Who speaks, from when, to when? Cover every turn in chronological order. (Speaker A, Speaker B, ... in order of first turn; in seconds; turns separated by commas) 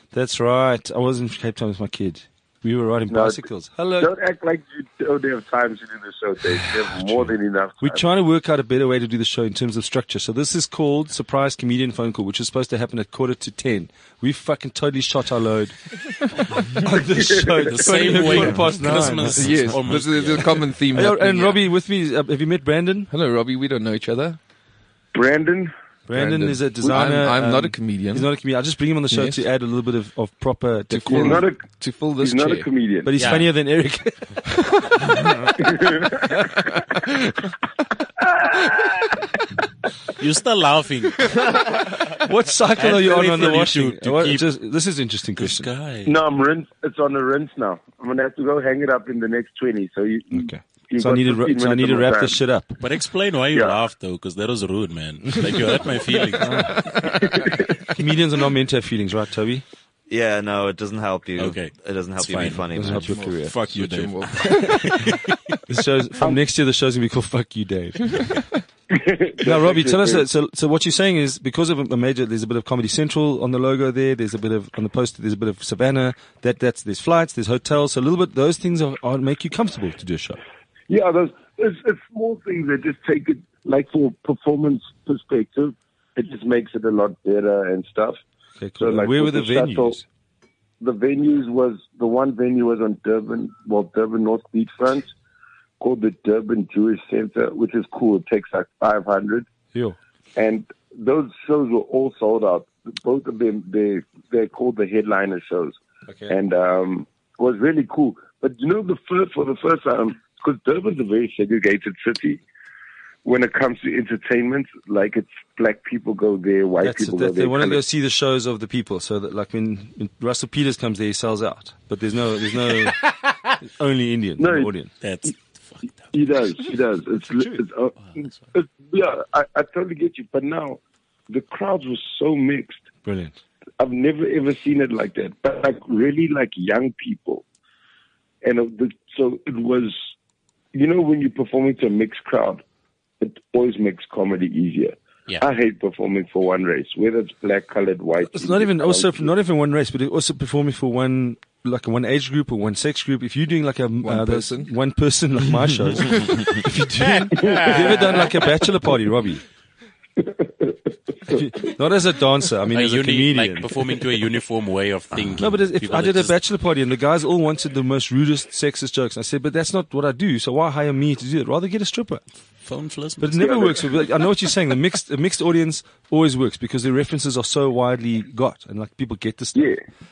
Speaker A: 0.1-4.1, Speaker B: 3.1-3.4, Speaker B: 4.0-8.0, Speaker A: 6.5-16.0, Speaker A: 16.6-20.0, Speaker B: 17.1-17.9, Speaker C: 17.7-20.7, Speaker D: 19.1-21.6, Speaker A: 20.9-23.1, Speaker D: 23.1-24.4, Speaker B: 25.1-25.7, Speaker A: 26.1-31.4, Speaker D: 26.1-28.3, Speaker D: 29.1-29.4, Speaker D: 30.9-32.7, Speaker B: 31.1-31.6, Speaker B: 32.2-33.1, Speaker A: 33.0-35.0, Speaker C: 33.2-33.5, Speaker B: 35.6-36.5, Speaker B: 38.2-39.2, Speaker C: 40.2-41.5, Speaker A: 42.1-45.7, Speaker C: 42.8-44.5, Speaker C: 45.4-46.1, Speaker B: 46.1-52.4, Speaker A: 50.3-52.8, Speaker C: 52.8-56.8, Speaker A: 56.4-56.8, Speaker D: 56.5-57.4, Speaker A: 57.9-59.6, Speaker E: 60.1-63.3, Speaker C: 61.4-63.0, Speaker A: 62.7-63.5, Speaker D: 63.1-65.2, Speaker C: 63.5-65.2, Speaker A: 64.7-65.1, Speaker A: 65.7-68.3, Speaker B: 68.9-70.3, Speaker A: 69.4-80.4, Speaker B: 80.9-88.2, Speaker A: 88.6-90.0, Speaker B: 88.8-90.0, Speaker B: 90.8-95.1, Speaker B: 95.8-99.5, Speaker B: 100.4-112.4, Speaker A: 106.1-106.3, Speaker B: 113.2-117.8, Speaker A: 116.8-123.0, Speaker C: 122.8-123.4, Speaker A: 123.6-124.9, Speaker B: 124.4-124.7, Speaker C: 125.0-126.0, Speaker B: 126.1-132.8, Speaker A: 127.3-127.6, Speaker A: 133.1-133.3, Speaker B: 133.8-137.4, Speaker B: 138.4-140.0, Speaker B: 140.7-142.6, Speaker B: 143.2-149.3, Speaker A: 148.2-159.4, Speaker D: 154.0-154.7, Speaker C: 157.0-158.1, Speaker B: 160.2-160.8, Speaker A: 161.3-163.7, Speaker C: 162.7-166.3, Speaker A: 165.4-172.2, Speaker C: 172.7-173.4, Speaker A: 173.2-179.7, Speaker B: 173.4-173.9, Speaker B: 179.6-179.8